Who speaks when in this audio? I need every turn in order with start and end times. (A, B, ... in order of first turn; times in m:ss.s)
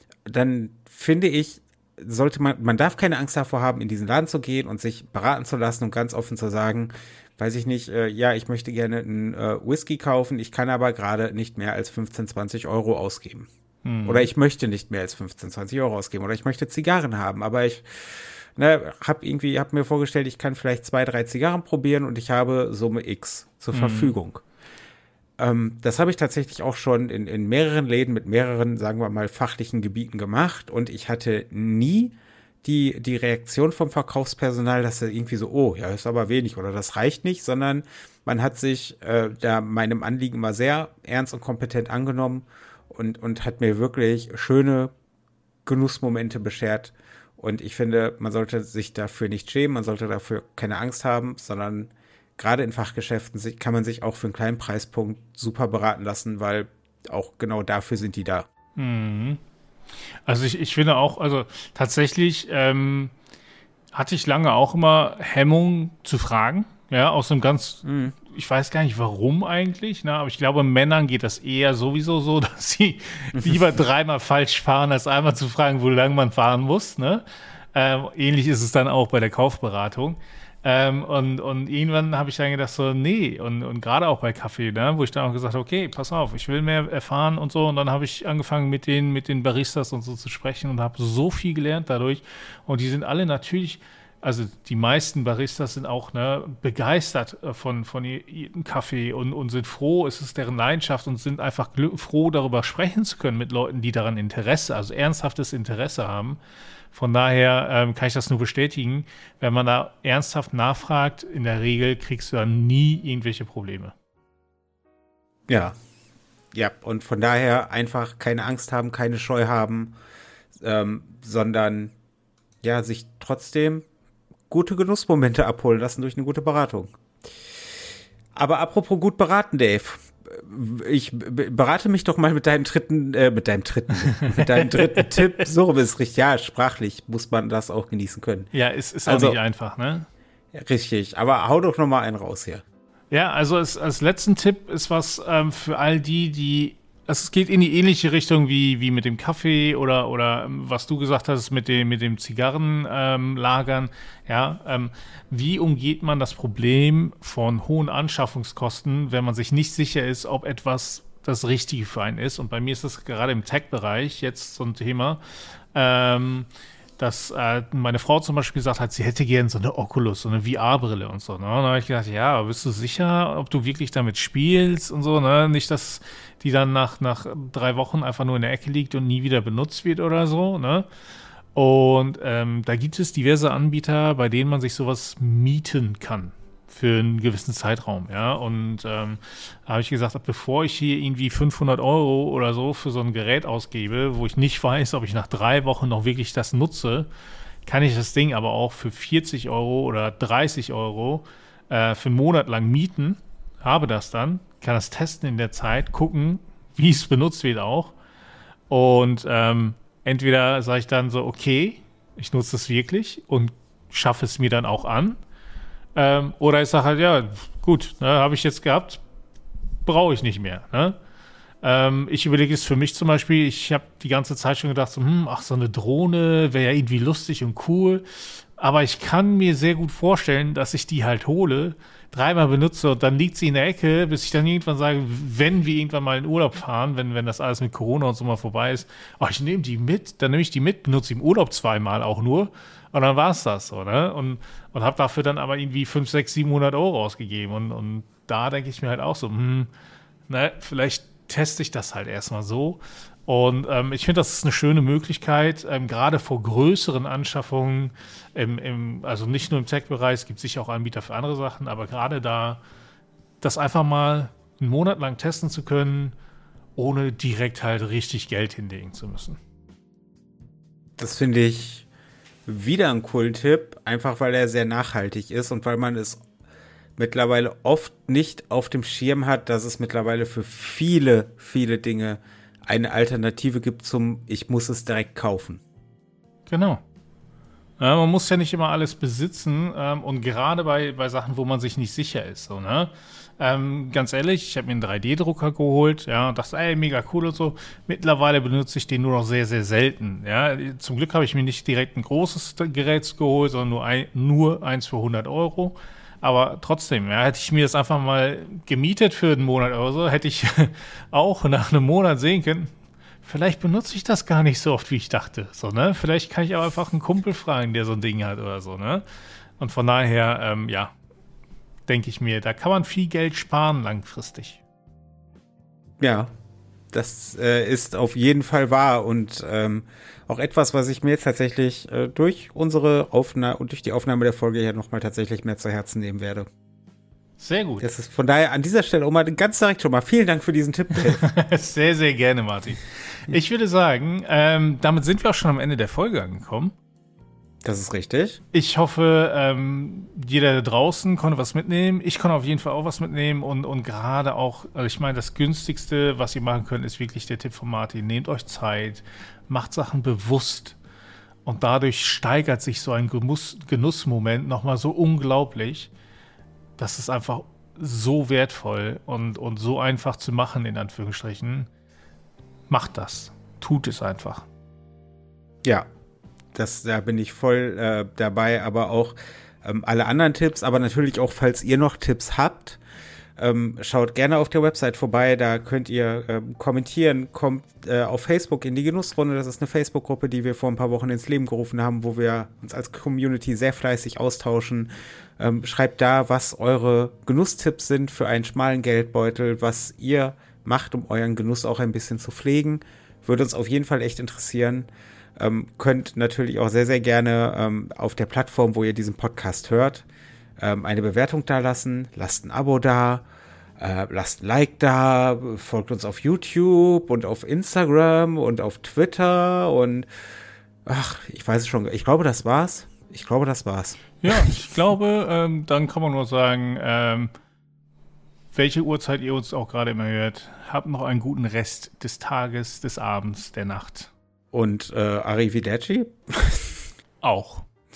0:00.3-0:13.5 A
0:13.8-0:14.3 B
0:14.0-0:24.4 A
0:23.7-0:24.1 B
0:25.4-0:44.9 A
0:45.6-0:58.5 A
0:58.8-0:59.4 B
1:00.1-1:03.1 B
1:03.9-1:46.4 B
1:07.8-1:08.1 A
1:13.3-1:13.6 A
1:46.9-1:53.9 B
1:55.5-1:55.8 A
1:56.5-1:59.9 A
2:00.6-2:01.9 A
2:02.6-2:03.8 A
2:04.5-2:06.9 A
2:08.3-2:18.5 A
2:14.1-2:15.2 B
2:18.5-2:20.1 B
2:19.1-2:19.4 A
2:20.5-2:22.6 A
2:23.1-2:45.2 B
2:45.7-2:46.5 B
2:47.0-3:00.9 B
3:01.5-3:17.1 B
3:17.6-3:27.9 B
3:28.7-3:35.2 B
3:35.9-3:39.0 B
3:39.8-3:41.0 B
3:41.6-4:09.7 B
4:10.3-4:22.6 B
4:23.4-4:26.1 B
4:26.8-4:29.4 B
4:31.0-4:31.8 A
4:32.4-4:36.2 A
4:37.0-4:45.6 A
4:46.5-4:46.8 B
4:47.8-5:12.7 B
5:13.2-5:19.0 B
5:19.6-5:20.9 B
5:21.9-5:24.6 B
5:26.0-5:26.3 A
5:26.9-5:36.5 A
5:37.4-5:37.9 B
5:37.8-5:41.3 A
5:41.2-5:46.7 B
5:47.6-5:48.4 A
5:48.5-6:00.8 B
6:01.4-6:05.9 B
6:06.8-6:11.7 B
6:12.7-6:14.5 B
6:16.5-6:22.8 A
6:23.4-6:50.0 A
6:50.6-6:53.2 A
6:53.8-7:00.1 A
7:00.8-7:04.5 A
7:04.2-7:07.3 B
7:08.5-7:14.1 B
7:14.5-7:16.8 A
7:17.2-7:17.6 B